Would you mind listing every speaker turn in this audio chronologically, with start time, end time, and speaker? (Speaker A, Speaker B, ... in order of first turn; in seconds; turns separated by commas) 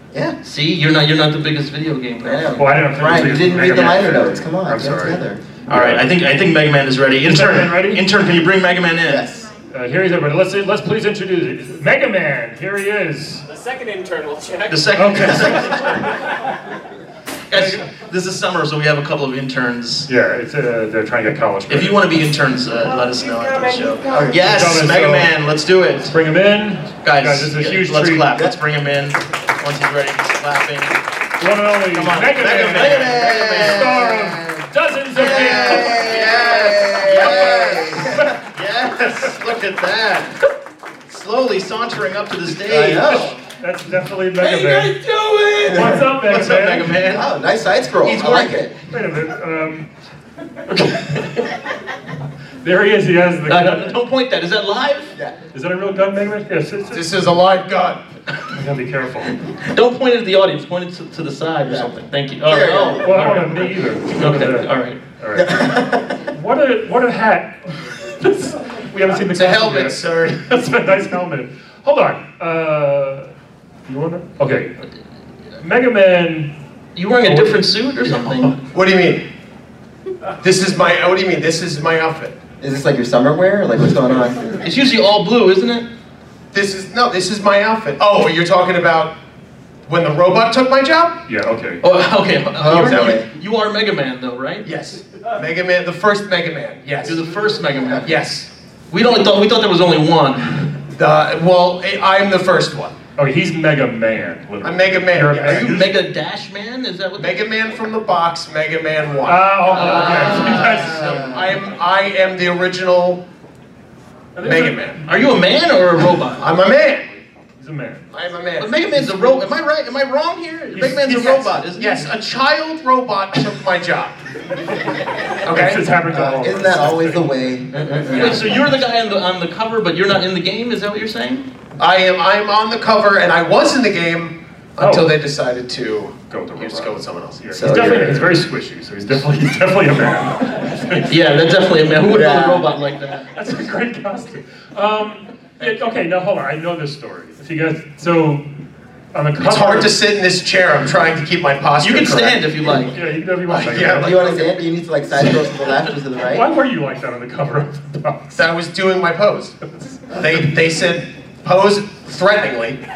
Speaker A: 0.4-2.6, Speaker B: 2.2-5.4, Speaker C: 2.6-6.1, Speaker A: 3.6-3.8, Speaker A: 5.7-9.2, Speaker C: 7.3-8.0, Speaker B: 9.1-9.5, Speaker C: 9.7-13.5, Speaker D: 13.5-14.8, Speaker A: 14.7-15.9, Speaker C: 14.9-16.1, Speaker A: 17.5-20.1, Speaker C: 17.5-17.9, Speaker C: 20.1-22.1, Speaker A: 21.7-26.2, Speaker D: 22.8-24.3, Speaker B: 24.1-24.4, Speaker C: 24.3-25.3, Speaker C: 26.1-28.3, Speaker A: 27.0-31.0, Speaker C: 31.4-38.4, Speaker A: 31.9-34.1, Speaker B: 32.7-38.4, Speaker A: 35.2-37.9, Speaker A: 38.5-40.3, Speaker C: 39.0-39.4, Speaker A: 41.1-43.2, Speaker B: 42.6-43.4, Speaker C: 43.0-45.0, Speaker D: 44.5-45.5, Speaker A: 45.1-47.3, Speaker C: 45.7-46.9, Speaker B: 47.0-48.8, Speaker A: 48.0-48.6, Speaker C: 48.9-49.9, Speaker C: 50.7-51.5, Speaker C: 52.6-54.0, Speaker A: 53.5-55.1, Speaker C: 55.5-57.2, Speaker E: 56.9-58.0, Speaker C: 58.5-59.4, Speaker A: 59.5-65.0, Speaker B: 61.7-63.4, Speaker C: 63.0-73.3, Speaker B: 65.3-66.2, Speaker E: 69.3-70.5, Speaker C: 73.9-74.8, Speaker C: 75.6-76.5, Speaker A: 77.0-78.5, Speaker C: 77.2-78.6, Speaker E: 78.7-79.2, Speaker E: 80.4-82.4, Speaker B: 82.6-84.5, Speaker A: 84.6-85.9, Speaker E: 86.5-89.1, Speaker E: 89.9-91.2, Speaker C: 91.3-91.8, Speaker A: 91.8-94.7, Speaker B: 92.6-93.3, Speaker E: 92.7-93.2, Speaker E: 94.7-97.2, Speaker A: 97.0-98.2, Speaker E: 98.0-98.5, Speaker A: 98.9-100.7, Speaker E: 100.9-103.0, Speaker C: 103.2-105.9, Speaker E: 104.6-105.9, Speaker A: 105.4-107.4, Speaker E: 107.2-113.2, Speaker C: 109.2-111.5, Speaker B: 110.2-111.0, Speaker C: 114.3-115.0, Speaker E: 114.5-115.0, Speaker A: 115.1-116.5, Speaker E: 116.4-117.2, Speaker C: 117.6-118.1, Speaker E: 118.1-118.7, Speaker A: 118.6-122.1, Speaker C: 120.7-121.4, Speaker E: 121.1-124.2, Speaker E: 125.4-125.8, Speaker C: 125.5-127.3, Speaker B: 126.1-128.5, Speaker A: 127.7-131.5, Speaker E: 128.1-128.4, Speaker E: 131.8-137.8, Speaker C: 134.8-135.2, Speaker C: 136.3-141.1, Speaker B: 137.6-138.3, Speaker A: 141.1-143.3, Speaker B: 142.1-142.8, Speaker C: 143.3-148.4, Speaker C: 149.1-149.9, Speaker E: 149.4-152.4, Speaker A: 151.8-153.0, Speaker C: 152.9-154.5, Speaker B: 153.5-156.5, Speaker E: 153.6-154.4, Speaker C: 156.3-158.4, Speaker E: 158.3-159.6, Speaker C: 159.7-160.2, Speaker E: 160.1-162.8